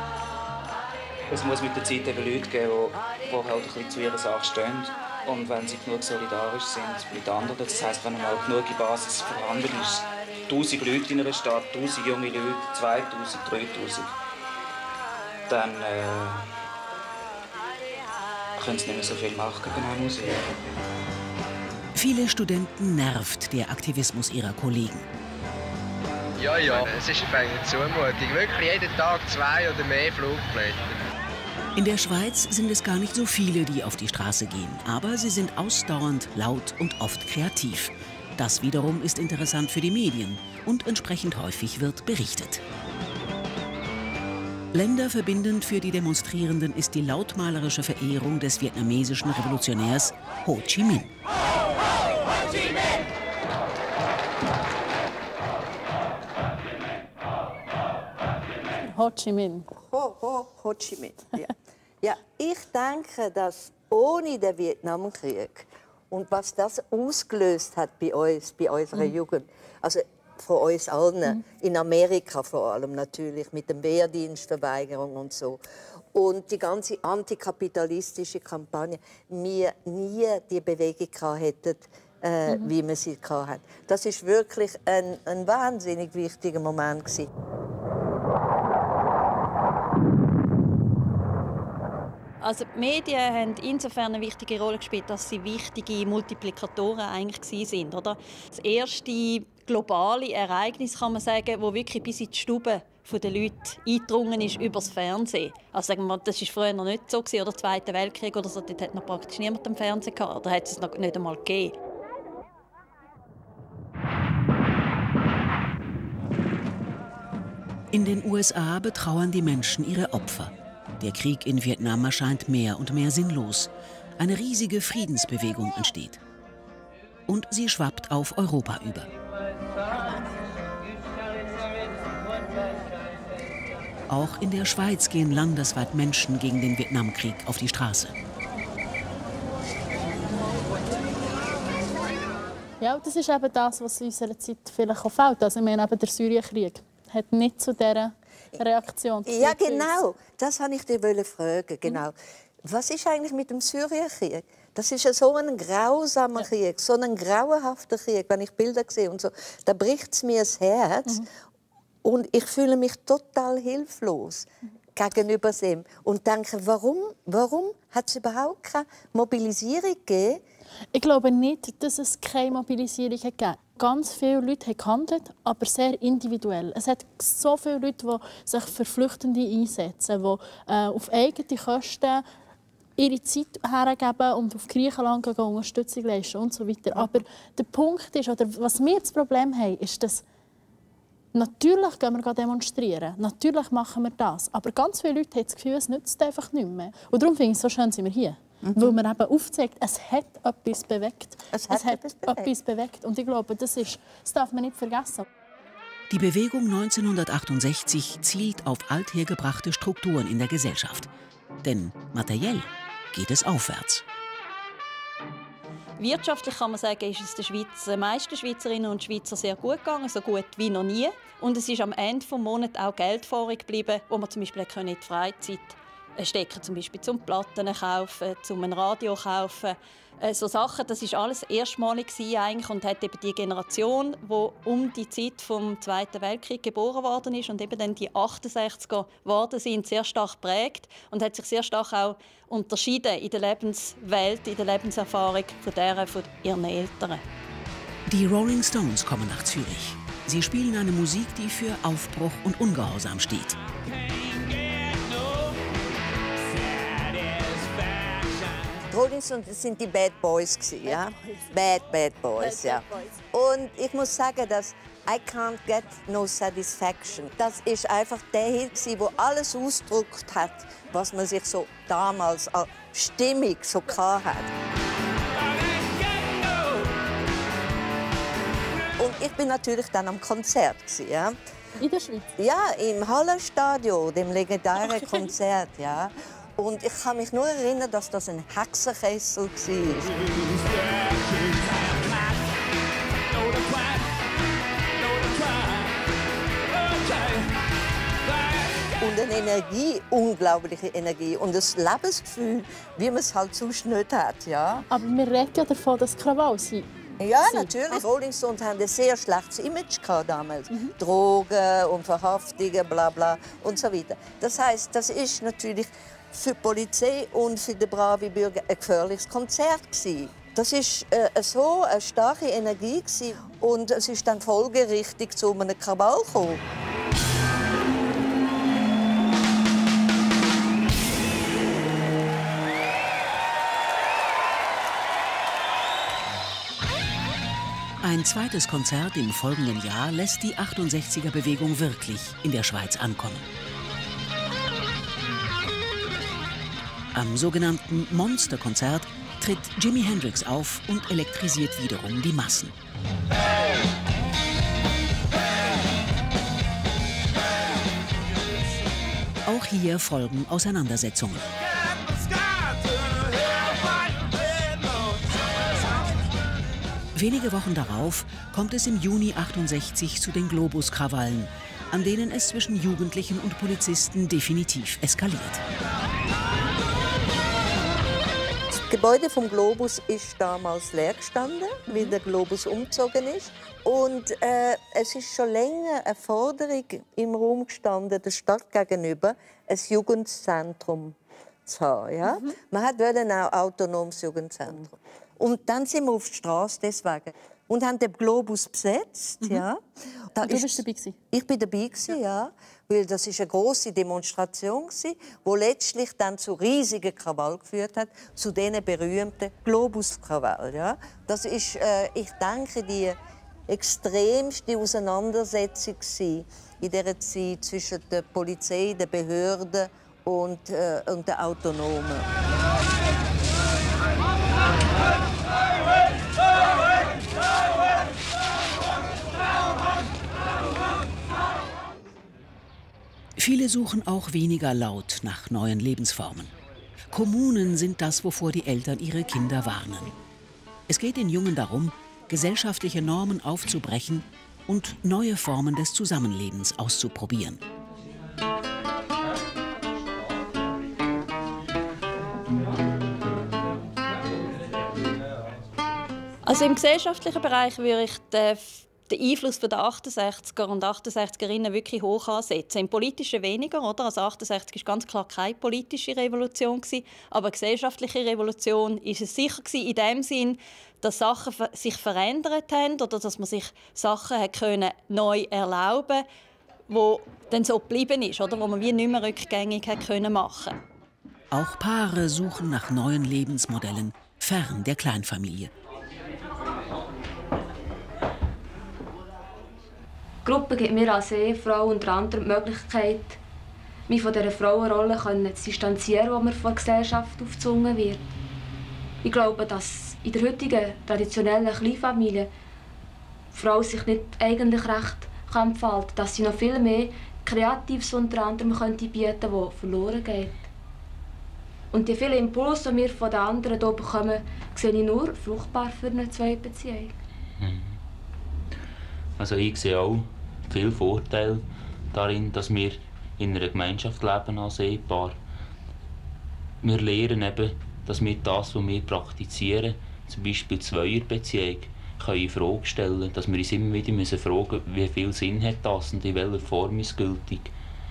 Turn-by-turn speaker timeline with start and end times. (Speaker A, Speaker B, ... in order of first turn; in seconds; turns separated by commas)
Speaker A: 1.3-14.1, Speaker A: 15.5-16.5, Speaker A: 18.6-20.6, Speaker B: 21.9-25.1, Speaker C: 26.4-30.9, Speaker B: 31.8-42.6, Speaker B: 44.7-51.1, Speaker D: 58.8-59.7, Speaker E: 59.7-75.6, Speaker E: 76.1-87.3, Speaker F: 92.4-111.7, Speaker B: 117.9-126.2, Speaker B: 127.3-129.1, Speaker B: 134.1-138.2, Speaker D: 142.8-149.9, Speaker E: 149.2-161.2, Speaker E: 162.0-170.4, Speaker D: 170.9-182.2, Speaker D: 183.0-190.2, Speaker D: 191.3-205.2, Speaker E: 198.6-198.9, Speaker E: 201.5-202.5, Speaker B: 206.1-211.1, Speaker B: 211.6-214.0, Speaker F: 216.0-247.2, Speaker B: 248.1-253.6, Speaker E: 258.9-274.5, Speaker D: 260.9-261.5, Speaker D: 262.4-263.1, Speaker E: 279.0-281.4, Speaker D: 281.8-282.3, Speaker E: 282.4-290.1, Speaker D: 284.8-285.3, Speaker E: 299.0-304.9, Speaker D: 304.9-306.9, Speaker E: 307.2-326.6, Speaker D: 307.4-308.0, Speaker B: 338.0-343.4, Speaker B: 347.1-352.7, Speaker B: 359.4-361.5, Speaker B: 367.1-375.6, Speaker E: 378.8-399.8, Speaker D: 392.3-392.6, Speaker E: 400.4-400.8, Speaker D: 400.4-401.2, Speaker E: 401.3-413.2, Speaker E: 413.7-422.3, Speaker B: 433.4-436.5, Speaker B: 437.1-440.1, Speaker B: 440.9-447.6, Speaker F: 456.4-476.2, Speaker F: 476.9-480.8, Speaker B: 481.5-485.7, Speaker G: 490.4-493.4, Speaker G: 494.1-498.3, Speaker G: 499.2-502.5, Speaker G: 503.5-510.6, Speaker G: 511.9-517.1, Speaker H: 517.6-518.0, Speaker H: 519.4-525.4, Speaker H: 526.8-537.7